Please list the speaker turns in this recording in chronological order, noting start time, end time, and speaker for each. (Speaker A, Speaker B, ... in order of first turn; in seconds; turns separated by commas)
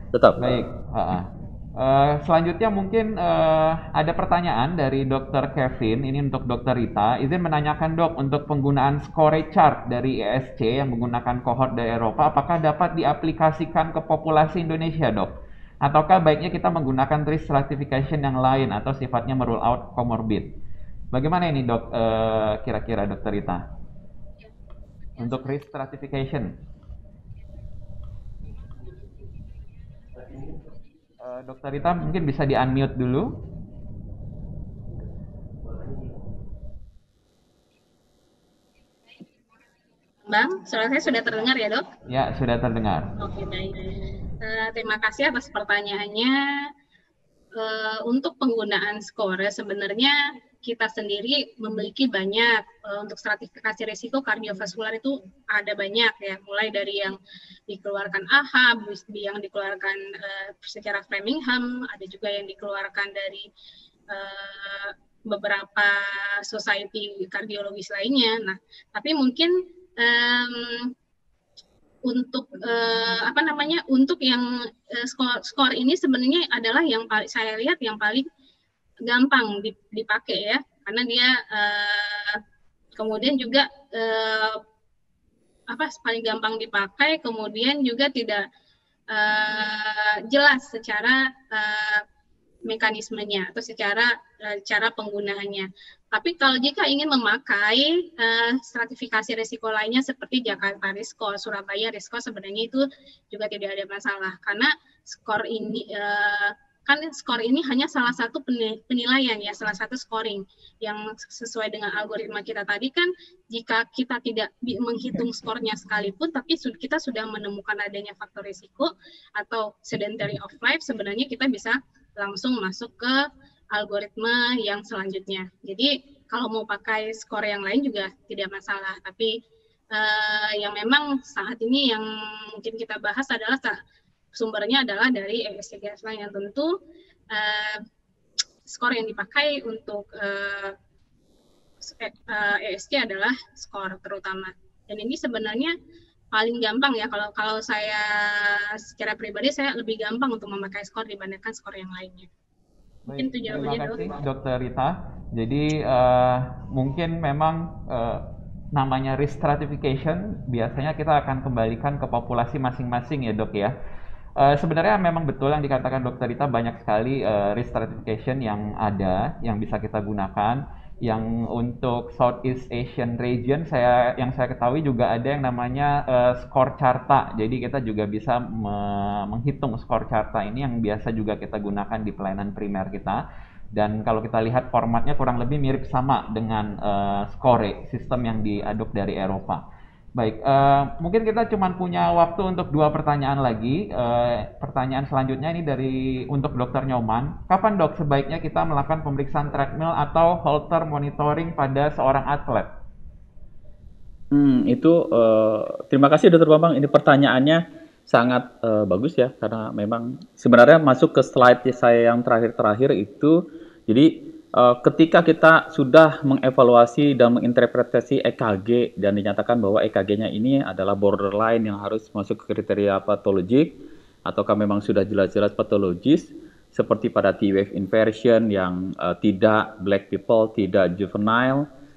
Speaker A: 0.1-0.4, Speaker B: 0.4-15.3, Speaker B: 15.8-20.5, Speaker B: 21.1-23.6, Speaker B: 25.2-26.5, Speaker B: 31.2-33.3, Speaker C: 40.3-41.9, Speaker B: 42.1-43.1, Speaker C: 43.2-46.4, Speaker C: 47.5-57.2, Speaker C: 57.7-63.5, Speaker C: 64.1-70.9, Speaker C: 72.0-78.3, Speaker C: 79.1-82.4, Speaker C: 83.0-84.6, Speaker C: 85.7-88.4, Speaker C: 89.1-92.0, Speaker C: 92.6-129.3, Speaker C: 129.9-133.8, Speaker C: 134.3-136.7, Speaker C: 137.3-137.8, Speaker C: 138.7-140.8, Speaker C: 141.8-145.7, Speaker C: 146.3-152.3, Speaker B: 153.1-158.2, Speaker C: 153.1-154.1, Speaker B: 158.7-163.7, Speaker B: 164.4-183.2, Speaker B: 183.7-189.6, Speaker B: 190.2-202.7, Speaker A: 204.3-213.4, Speaker A: 213.9-231.7